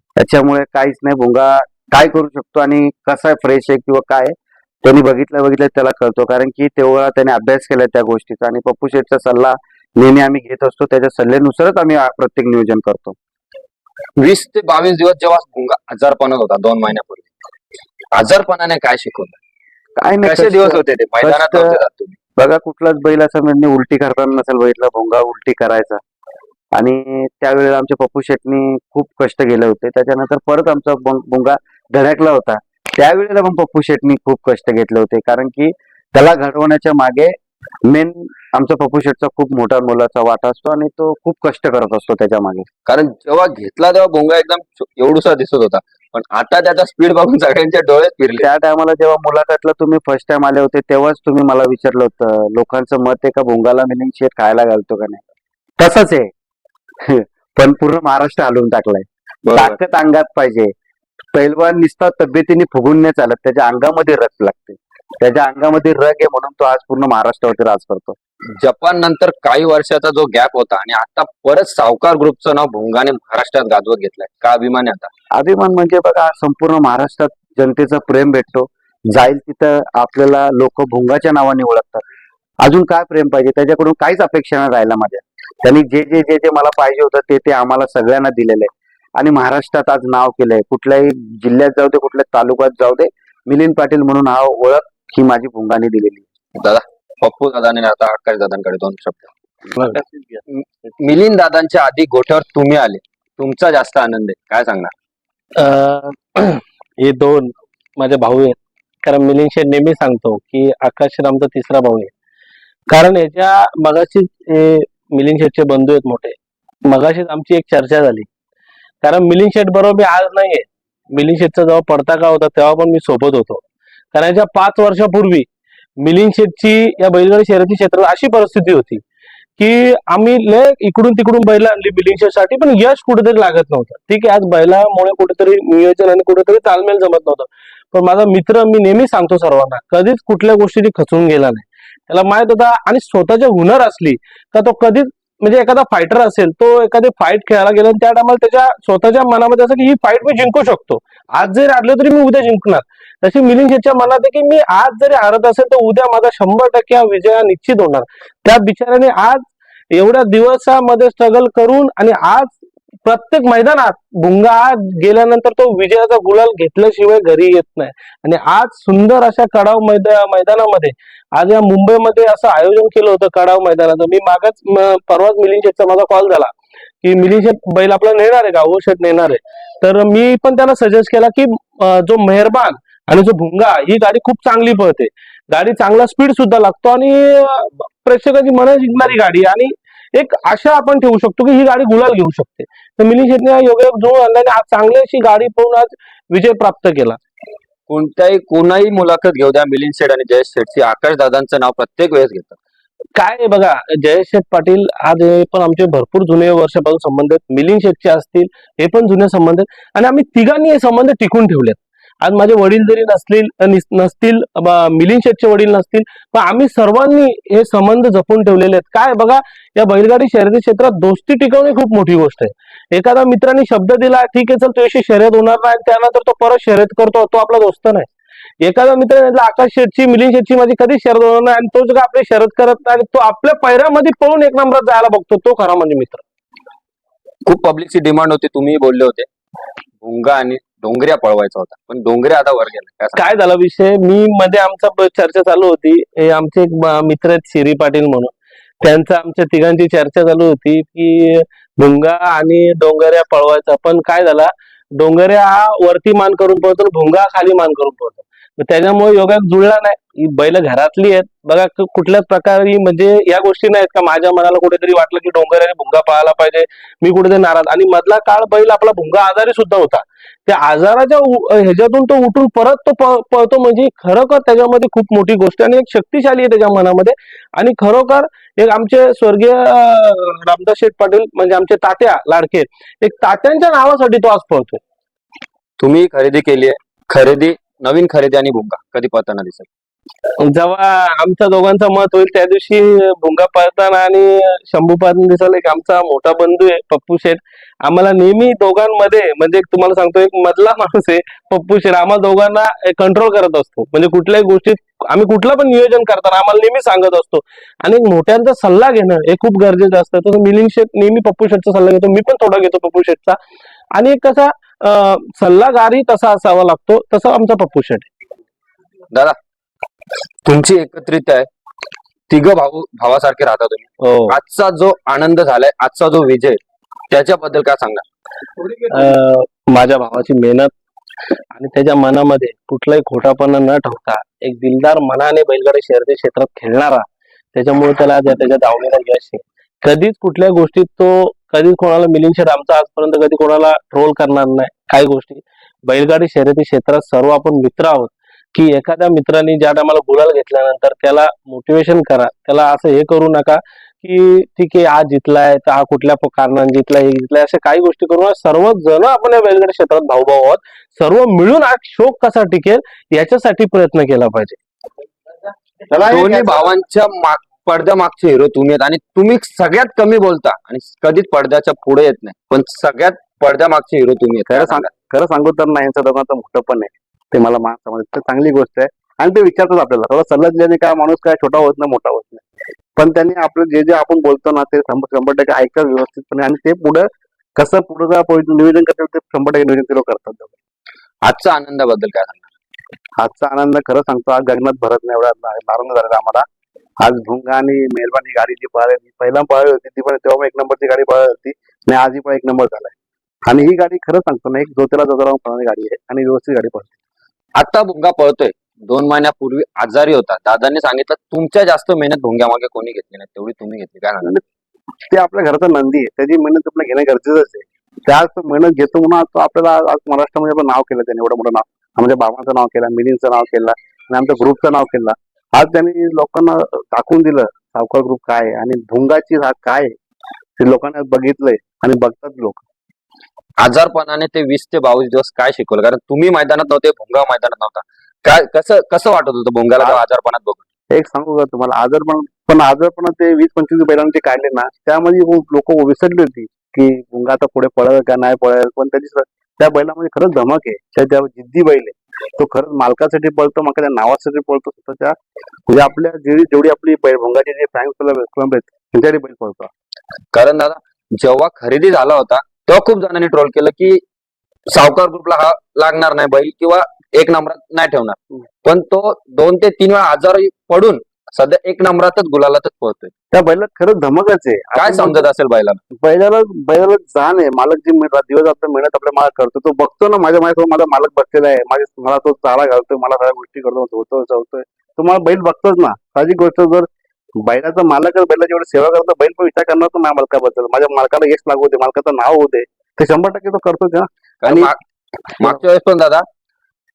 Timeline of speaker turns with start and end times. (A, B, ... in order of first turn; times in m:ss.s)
0:00.2-0:13.2 A
0:14.2-0:17.3 B
0:18.1-0:19.4 B
0:20.0-0:21.8 A
0:20.2-0:22.2 B
0:22.4-0:26.0 A
0:26.7-0:42.7 A
0:42.8-0:48.5 B
0:48.4-0:55.2 A
0:55.8-0:56.3 A
0:57.0-1:00.7 A
0:59.4-0:59.8 B
1:01.3-1:08.2 A
1:08.6-1:15.1 B
1:15.3-1:22.0 A
1:22.6-1:36.2 A
1:36.6-1:39.3 B
1:39.8-1:40.0 C
1:40.5-1:44.9 B
1:45.6-1:52.1 C
1:52.9-1:58.3 C
1:59.0-2:05.5 C
2:06.0-2:09.0 C
2:09.6-3:17.2 C
3:17.9-3:22.6 B
3:23.2-3:48.1 C
3:48.6-3:56.2 C
3:57.4-3:59.3 B
4:00.0-4:03.2 B
4:03.2-4:44.8 C
4:45.8-4:49.7 B
4:50.4-5:13.4 C
5:13.9-5:18.1 C
5:19.1-5:19.4 B
5:20.4-5:21.5 B
5:22.3-5:26.6 B
5:24.0-5:24.4 C
5:27.1-5:28.0 B
5:28.8-5:30.7 C
5:31.5-6:04.6 C
6:05.9-6:06.7 D
6:06.0-6:14.9 B
6:14.5-6:22.4 D
6:23.0-6:30.5 D
6:31.2-6:32.4 B
6:33.2-6:36.4 D
6:37.0-6:42.9 D
6:43.4-6:46.9 D
6:47.5-6:54.4 B
6:55.1-7:09.9 D
7:10.6-7:12.6 D
7:13.6-7:20.6 B
7:20.9-7:35.1 D
7:35.7-7:39.7 D
7:40.3-7:44.0 B
7:44.7-7:53.1 B
7:53.3-7:55.2 D
7:54.8-7:55.8 B
7:56.0-8:06.9 D
8:07.4-8:14.7 D
8:14.4-8:14.8 B
8:15.4-8:16.2 B